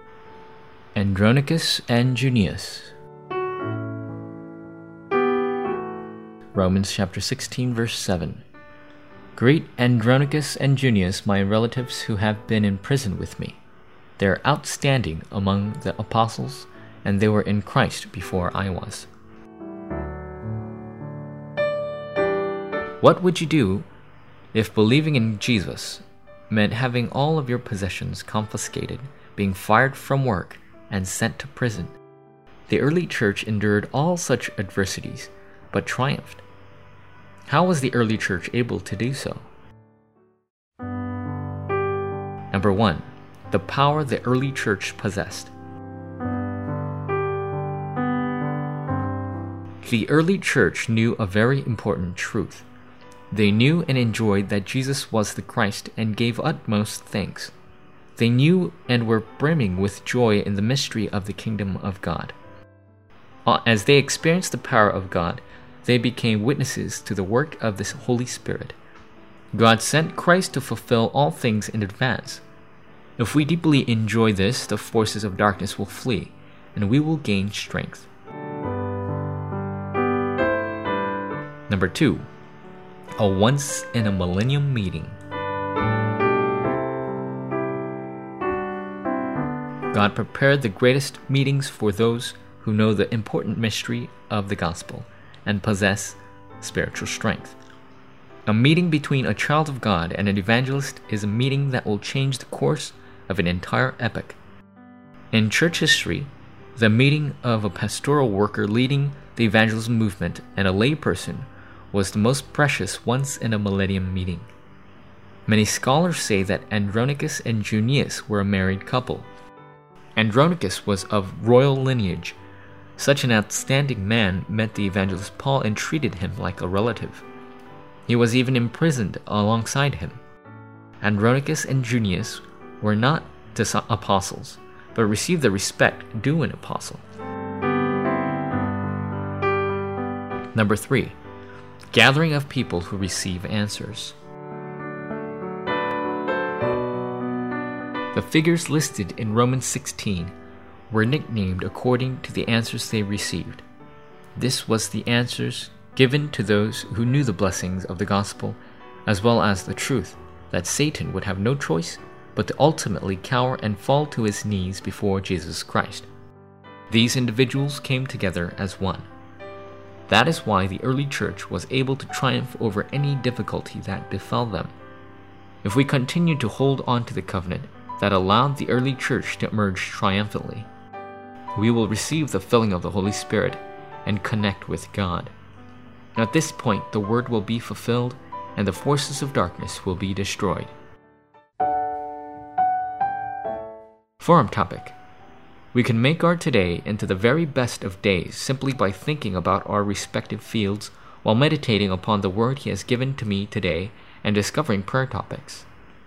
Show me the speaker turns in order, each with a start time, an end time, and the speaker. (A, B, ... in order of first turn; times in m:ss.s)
0:00.9-0:02.9 A
0:06.5-0:08.4 A
0:09.3-0:13.6 A
0:14.2-0:19.1 A
0:23.0-0:23.9 A
0:24.5-0:31.9 A
0:32.7-0:36.4 A
0:37.5-0:39.5 A
0:42.5-0:45.5 A
0:49.8-0:52.6 A
0:53.3-0:57.5 A
0:58.2-1:02.3 A
1:03.4-1:08.8 A
1:09.5-1:12.4 A
1:13.2-1:18.1 A
1:21.7-1:22.3 A
1:23.2-1:25.2 A
1:29.9-1:37.6 A
1:38.4-1:44.4 A
1:45.3-1:54.5 A
1:55.5-1:59.3 A
2:00.2-2:02.4 A
2:03.0-2:07.2 A
2:08.1-2:10.2 A
2:11.0-2:17.0 A
2:20.5-2:21.2 A
2:21.9-2:24.2 A
2:28.1-2:30.3 A
2:30.9-2:33.6 A
2:34.4-2:46.1 A
2:46.9-2:49.1 A
2:50.1-2:54.7 A
2:55.6-3:00.7 A
3:01.5-3:05.3 A
3:06.1-3:10.7 A
3:14.2-3:14.9 A
3:15.7-3:25.6 A